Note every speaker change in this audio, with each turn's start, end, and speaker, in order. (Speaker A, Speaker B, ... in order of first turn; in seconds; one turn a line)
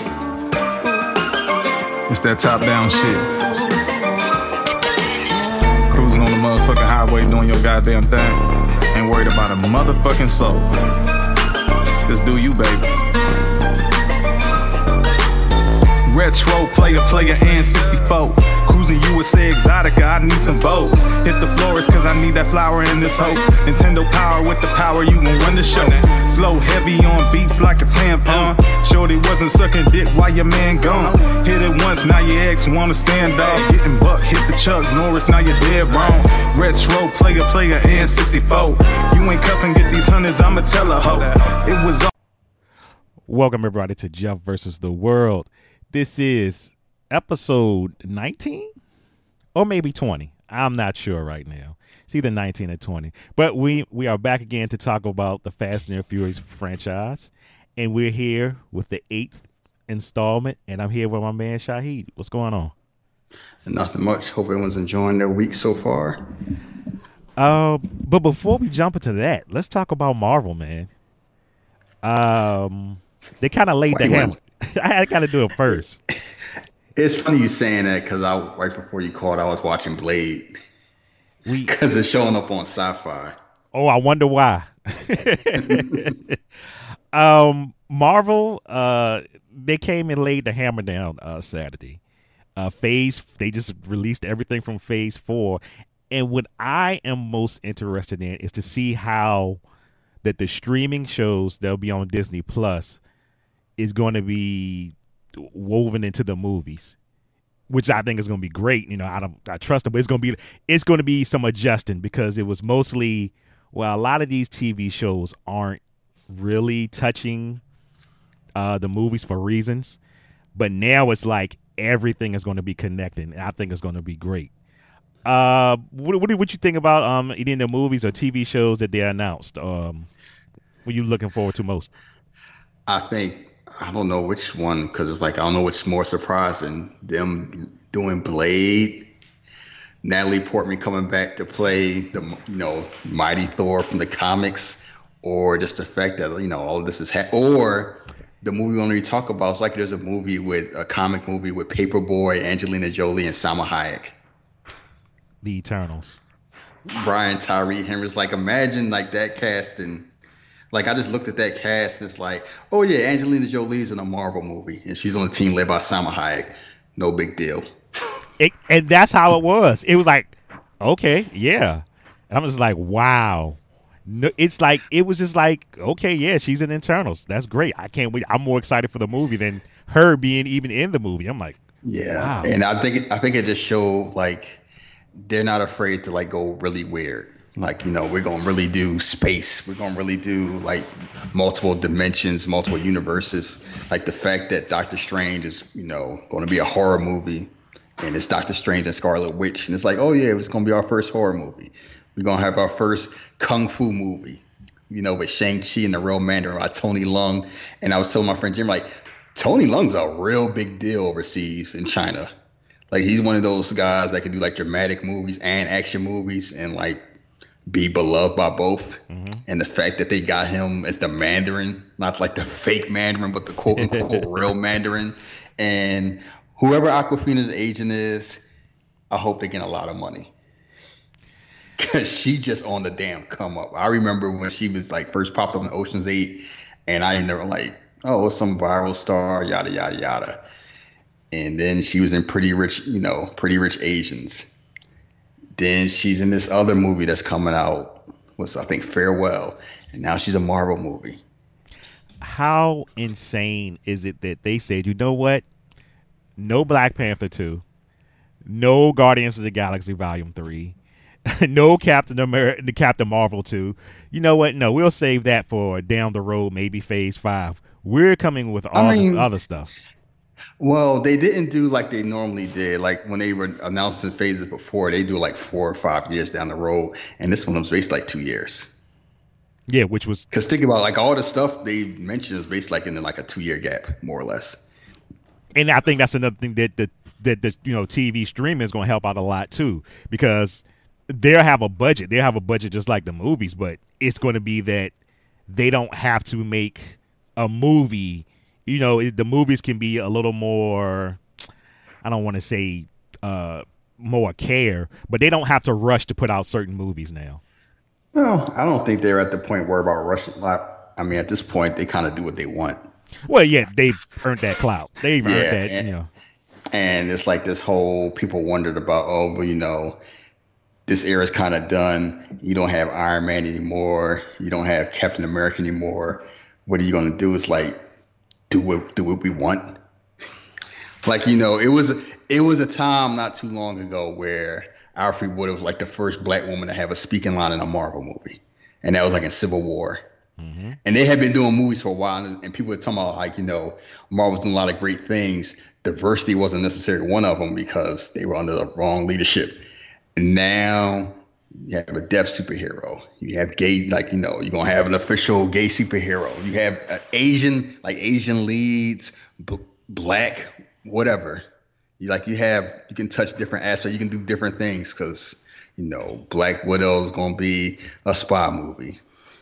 Speaker A: 2.1-3.3
Speaker A: 5.9-8.4
Speaker A: 8.9-10.7
Speaker A: 12.1-12.9
Speaker A: 16.1-42.1
Speaker B: 43.3-48.7
Speaker B: 49.5-62.7
Speaker C: 63.7-66.2
Speaker B: 67.4-70.9
Speaker B: 72.0-76.0
Speaker C: 73.9-74.4
Speaker C: 77.0-80.5
Speaker B: 81.5-81.7
Speaker C: 81.7-83.3
Speaker B: 83.7-86.4
Speaker C: 85.7-86.1
Speaker B: 87.1-92.0
Speaker B: 92.6-99.6
Speaker B: 100.2-103.0
Speaker B: 103.8-107.0
Speaker B: 107.7-117.6
Speaker B: 118.6-120.0
Speaker B: 120.5-124.5
Speaker B: 125.2-130.1
Speaker B: 130.8-131.9
Speaker C: 132.9-139.1
Speaker C: 140.0-154.2
Speaker B: 155.4-156.2
Speaker C: 156.9-160.1
Speaker C: 160.7-167.7
Speaker B: 168.4-181.6
Speaker C: 181.8-184.6
Speaker B: 182.1-182.6
Speaker C: 185.2-212.3
Speaker C: 212.9-217.1
Speaker C: 217.7-228.4
Speaker B: 219.1-219.4
Speaker B: 223.7-224.5
Speaker C: 229.1-230.3
Speaker C: 231.8-240.4
Speaker C: 241.3-244.5
Speaker C: 245.6-251.2
Speaker B: 252.2-255.4
Speaker B: 256.4-257.6
Speaker B: 258.4-260.8
Speaker B: 261.3-269.7
Speaker C: 268.7-269.3
Speaker C: 270.6-278.8
Speaker B: 279.7-280.3
Speaker C: 280.3-284.7
Speaker B: 285.6-294.9
Speaker B: 295.5-301.2
Speaker B: 302.0-307.4
Speaker C: 308.1-312.8
Speaker B: 313.3-316.1
Speaker C: 315.2-315.9
Speaker C: 316.7-320.0
Speaker C: 320.9-327.8
Speaker C: 328.5-329.8
Speaker C: 331.0-340.0
Speaker B: 340.4-340.8
Speaker C: 340.9-349.6
Speaker C: 350.2-361.4
Speaker C: 362.0-369.0